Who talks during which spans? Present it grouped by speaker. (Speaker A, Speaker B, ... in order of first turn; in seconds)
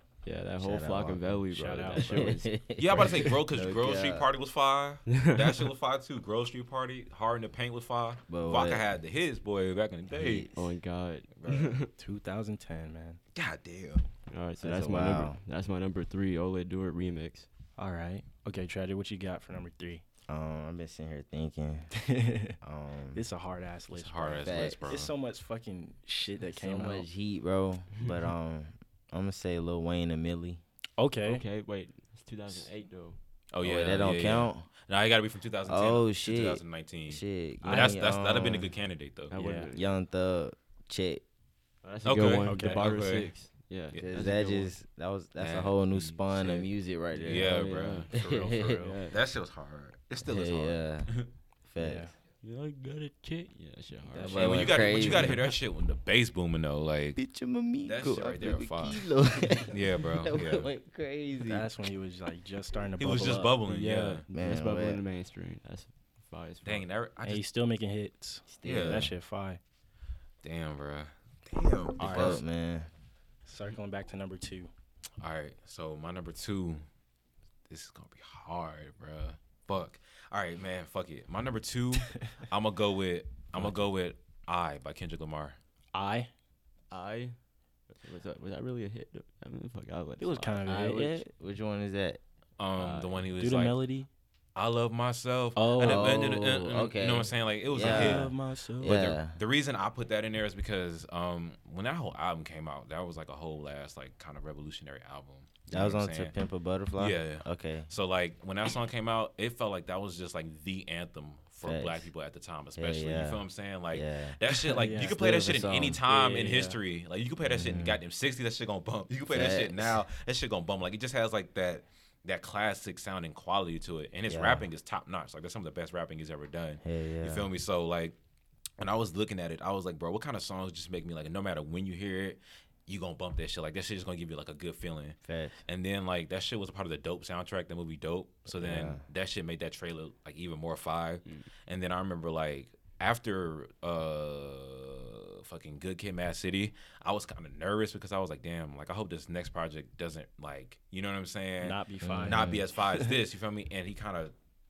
Speaker A: 0.2-2.5, 5.1-5.6, 10.5-11.9, 14.3-17.5, 31.2-33.2, 39.3-39.9, 41.8-44.7, 47.2-48.1, 48.7-49.2, 52.4-55.4, 63.6-66.8, 86.9-87.3, 87.9-91.1, 92.8-93.2
Speaker B: 0.6-4.3, 8.3-8.9, 10.1-10.6, 14.6-15.4, 20.3-22.0, 22.6-23.2, 24.4-25.0, 26.5-30.6, 33.6-34.7, 35.6-38.7, 39.7-41.2, 44.0-48.8, 50.2-52.1, 54.2-55.5, 57.1-61.7, 64.3-65.0, 68.5-69.1, 72.0-72.9, 90.6-92.2, 95.8-99.4, 105.7-107.9, 111.6-112.1, 112.7-114.4, 115.0-116.0, 117.4-118.0, 119.3-120.0, 124.3-124.7, 126.8-127.5, 135.2-135.6, 138.5-139.0, 152.0-152.7
Speaker C: 1.5-2.3, 12.0-13.2, 17.8-20.0, 22.0-22.6, 23.1-27.1, 31.0-31.4, 37.6-38.0, 39.3-39.7, 42.4-42.8, 48.1-49.0, 51.8-52.1, 54.1-54.7, 61.5-63.6, 67.2-69.6, 72.0-72.4, 73.5-74.7, 85.9-86.3, 90.2-91.2, 93.4-94.1, 95.5-96.4, 97.8-99.0, 114.5-115.2, 116.0-116.8, 151.6-153.1
Speaker D: 2.7-10.5, 11.4-11.8, 13.3-14.0, 23.9-25.1, 33.5-39.3, 42.0-43.3, 45.4-48.1, 49.1-51.3, 54.3-57.2, 57.8-59.1, 59.7-60.7, 63.0-64.2, 66.6-67.4, 68.6-69.1, 70.4-72.4, 75.2-76.8, 77.7-85.6, 92.6-93.8, 94.5-106.3, 107.0-128.2, 128.8-154.3